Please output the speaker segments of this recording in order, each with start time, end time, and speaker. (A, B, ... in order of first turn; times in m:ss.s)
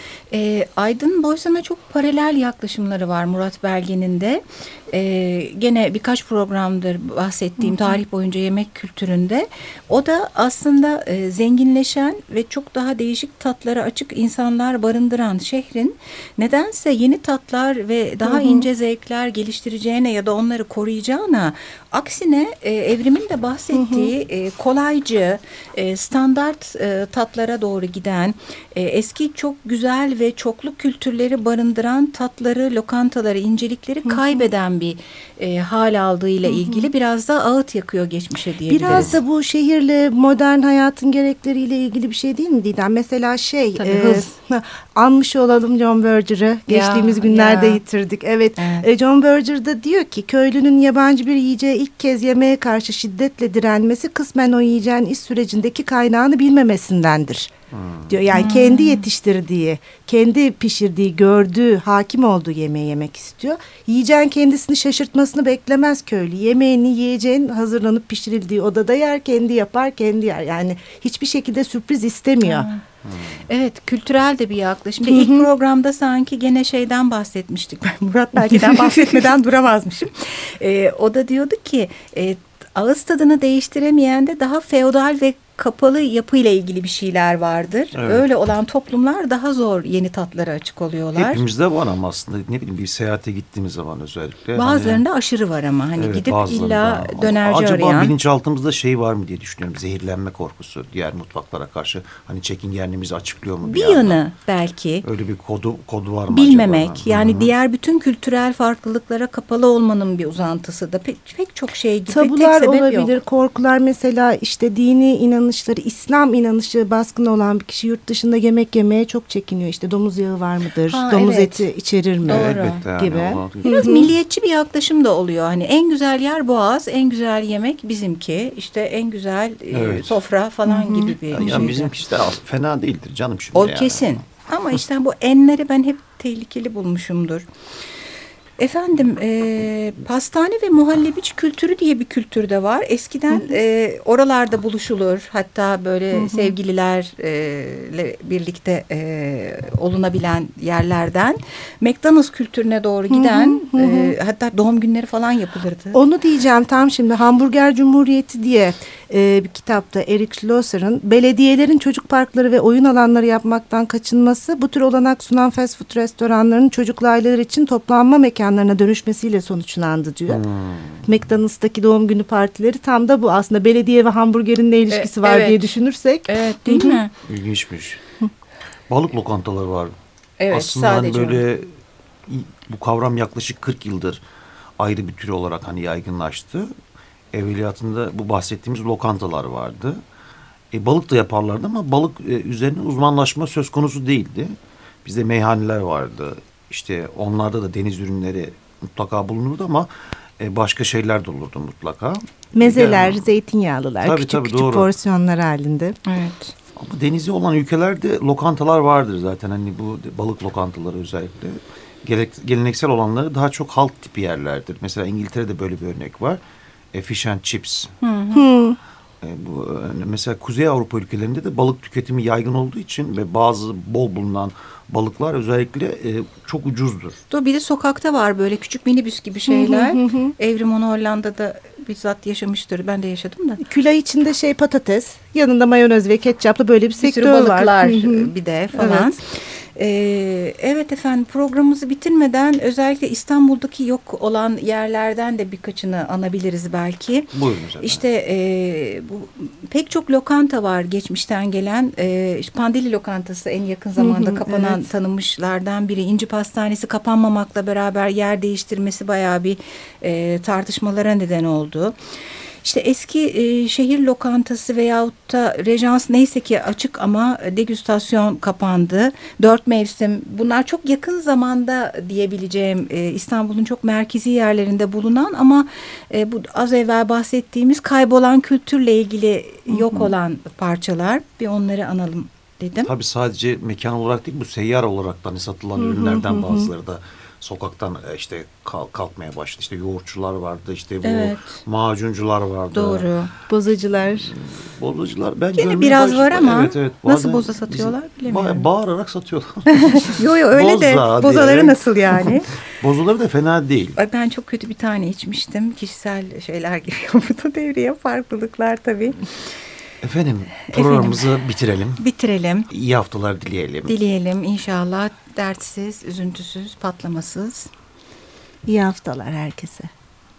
0:00.3-0:39.2 A
0:07.6-0:08.0 B
0:18.2-0:18.6 B
0:23.7-0:24.1 B
0:34.0-0:34.4 B
0:36.4-0:36.9 B
0:38.7-0:57.5 B
0:43.8-0:44.3 A
0:46.7-0:47.8 A
0:48.6-0:48.9 A
0:57.7-0:58.1 C
0:58.1-1:12.7 B
0:58.3-0:59.0 A
1:12.4-1:12.8 A
1:13.0-1:13.4 C
1:13.5-1:31.4 A
1:15.1-1:15.5 B
1:18.5-1:19.2 B
1:27.9-1:28.2 C
1:31.1-1:35.0 C
1:34.6-1:38.1 A
1:36.0-1:44.2 C
1:43.6-1:45.0 A
1:45.0-1:47.5 C
1:46.3-1:53.1 A
1:52.1-2:04.1 B
2:00.9-2:01.7 A
2:02.2-2:02.8 A
2:02.3-2:04.1 C
2:03.6-2:11.9 A
2:09.7-2:10.2 C
2:10.6-2:11.7 B
2:11.3-2:14.1 C
2:13.5-2:17.5 A
2:18.6-2:36.0 A
2:23.3-2:23.6 B
2:26.1-2:26.5 B
2:33.1-2:34.2 B
2:35.9-2:50.4 B
2:50.3-2:51.0 C
2:51.0-2:57.0 B
2:54.9-2:55.7 A
2:56.3-2:57.1 A
2:57.3-2:58.0 C
2:58.9-2:59.9 C
3:00.4-3:01.4 A
3:00.5-3:01.7 C
3:02.3-3:04.2 C
3:04.8-3:06.7 C
3:07.3-3:10.0 C
3:10.7-3:14.5 C
3:15.0-3:23.2 C
3:22.5-3:26.0 B
3:24.0-3:24.9 C
3:26.0-3:26.5 A
3:26.8-3:36.4 C
3:36.9-3:37.9 C
3:38.0-3:38.5 A
3:38.3-3:38.8 B
3:39.2-3:47.2 C
3:47.3-3:53.6 A
3:49.5-3:50.3 B
3:53.6-3:59.1 B
3:57.0-4:21.9 A
4:07.3-4:08.0 C
4:14.0-4:14.8 B
4:22.6-4:42.9 A
4:39.7-4:40.1 B
4:42.8-4:53.1 C
4:45.8-4:46.7 B
4:51.0-4:51.6 A
4:52.7-4:53.3 A
4:53.5-4:54.3 B
4:54.2-5:01.8 C
4:55.6-4:58.6 A
4:59.7-5:02.5 A
5:02.8-5:04.0 C
5:04.0-5:09.2 A
5:10.0-5:12.0 C
5:10.7-5:11.3 A
5:12.0-5:12.7 A
5:12.7-5:13.9 C
5:13.9-5:17.7 A
5:18.6-5:19.9 B